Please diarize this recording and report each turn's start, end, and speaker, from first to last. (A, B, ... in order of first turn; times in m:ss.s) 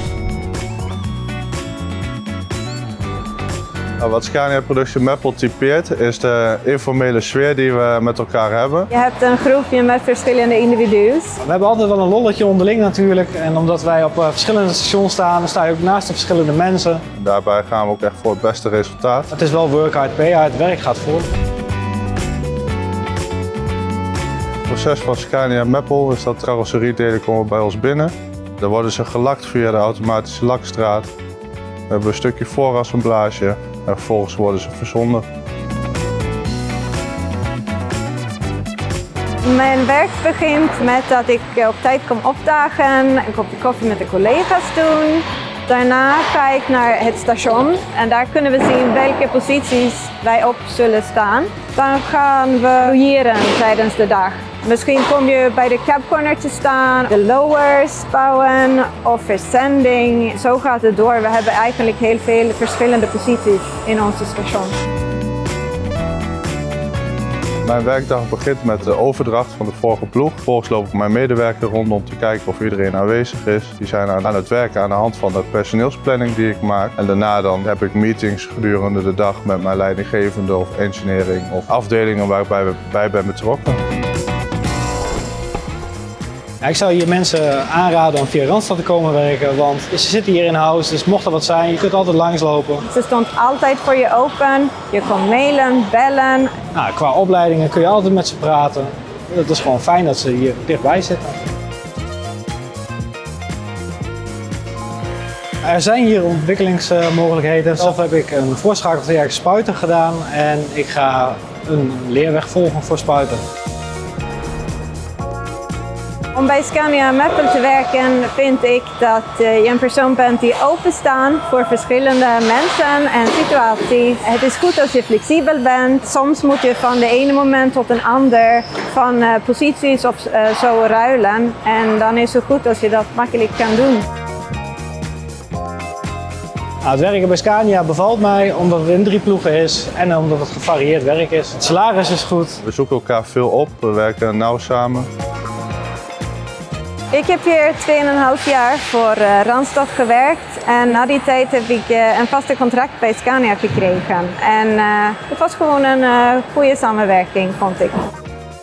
0:04.0-0:08.9 A
0:08.9-0:11.4 B
0:11.4-0:17.0 C
0:17.2-0:19.3 A
0:19.3-0:21.3 C
0:24.7-0:31.1 A
0:31.9-0:35.2 A
0:39.4-1:04.7 B
1:07.6-1:23.8 A
1:26.6-1:32.8 C
1:32.8-1:36.5 B
1:36.7-1:41.4 C
1:45.6-1:53.4 C
1:56.3-2:14.0 B
2:16.8-2:22.6 C
2:22.6-2:25.1 A
2:27.1-2:38.0 B